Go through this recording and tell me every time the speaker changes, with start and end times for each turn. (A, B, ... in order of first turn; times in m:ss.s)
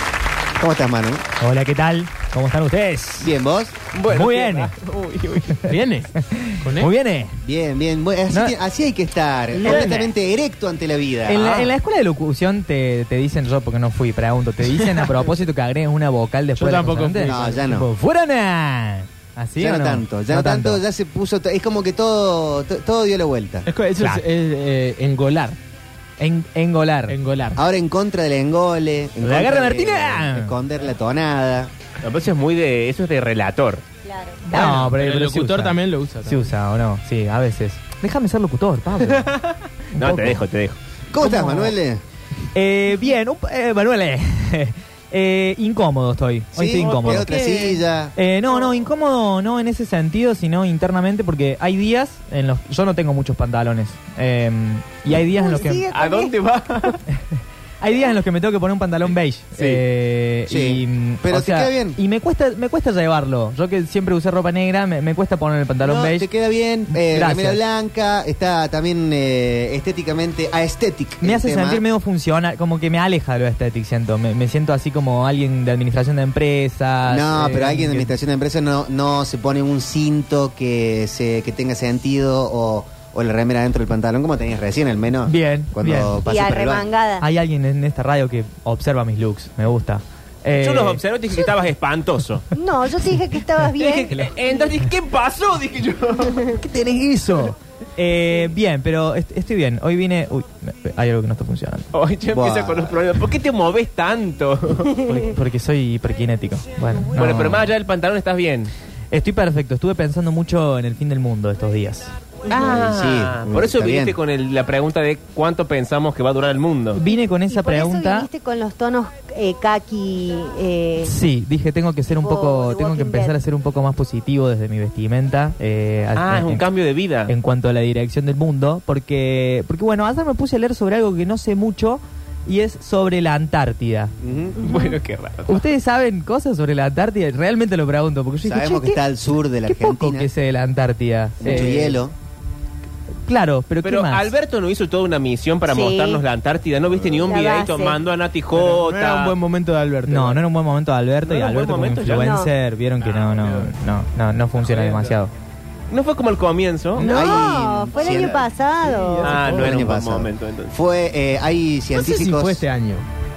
0:00.6-0:01.2 A
0:01.4-0:03.3 B
0:03.2-0:03.8 A
0:03.9-0:05.6 C
0:04.0-0:04.7 B
0:05.7-0:06.9 D
0:06.2-0:07.4 B
0:07.4-0:11.5 A
0:08.3-0:08.6 B
0:09.6-0:10.1 B
0:09.6-0:10.0 D
0:11.3-0:20.8 B
0:11.4-0:11.7 C
0:16.6-0:17.6 D
0:17.2-0:17.9 A
0:19.6-0:23.7 A
0:23.7-0:25.6 D
0:26.2-0:27.2 B
0:27.1-0:27.6 D
0:27.6-0:31.7 A
0:29.2-0:30.5 B
0:32.0-0:33.8 C
0:34.0-0:34.5 E
0:34.5-0:39.3 B
0:34.5-0:36.4 D
0:39.1-0:40.8 C
0:40.0-0:40.4 B
0:41.1-0:42.0 A
0:41.2-0:41.7 B
0:42.5-0:47.4 B
0:46.6-0:48.1 A
0:46.8-0:47.6 C
0:48.2-0:55.8 B
0:55.4-0:56.3 E
0:55.9-0:57.0 C
0:57.1-1:06.3 B
0:59.5-0:59.8 C
1:00.5-1:02.0 A
1:05.8-1:11.8 A
1:06.9-1:07.6 B
1:11.2-1:18.1 B
1:17.1-1:26.9 A
1:25.2-1:26.2 B
1:26.2-1:27.2 E
1:27.2-1:31.0 B
1:30.5-1:32.5 C
1:32.6-1:34.3 E
1:33.8-1:36.5 C
1:36.6-1:41.9 B
1:41.9-1:45.0 C
1:42.3-1:43.0 A
1:45.0-1:47.7 B
1:47.1-1:48.7 C
1:49.1-1:52.1 B
1:52.5-1:57.0 C
1:52.5-1:54.1 A
1:56.9-1:58.3 B
1:57.5-2:01.1 E
2:01.0-2:06.6 B
2:02.1-2:03.3 E
2:06.1-2:07.3 C
2:07.3-2:14.1 B
2:14.2-2:14.6 A
2:14.6-2:15.6 C
2:14.7-2:14.9 E
2:15.5-2:19.0 B
2:18.4-2:20.3 A
2:19.7-2:22.0 B
2:21.4-2:22.1 A
2:23.3-2:24.3 B
2:23.8-2:29.3 C
2:25.7-2:26.2 E
2:27.3-2:28.0 E
2:28.5-2:30.4 D
2:30.1-2:35.3 B
2:31.2-2:32.4 C
2:32.1-2:32.5 E
2:33.0-2:33.8 D
2:34.6-2:35.2 D
2:35.9-2:37.1 C
2:37.0-2:39.7 D
2:37.0-2:39.3 E
2:37.0-2:38.5 A
2:39.2-2:40.7 C
2:39.4-2:42.6 A
2:41.9-2:43.1 D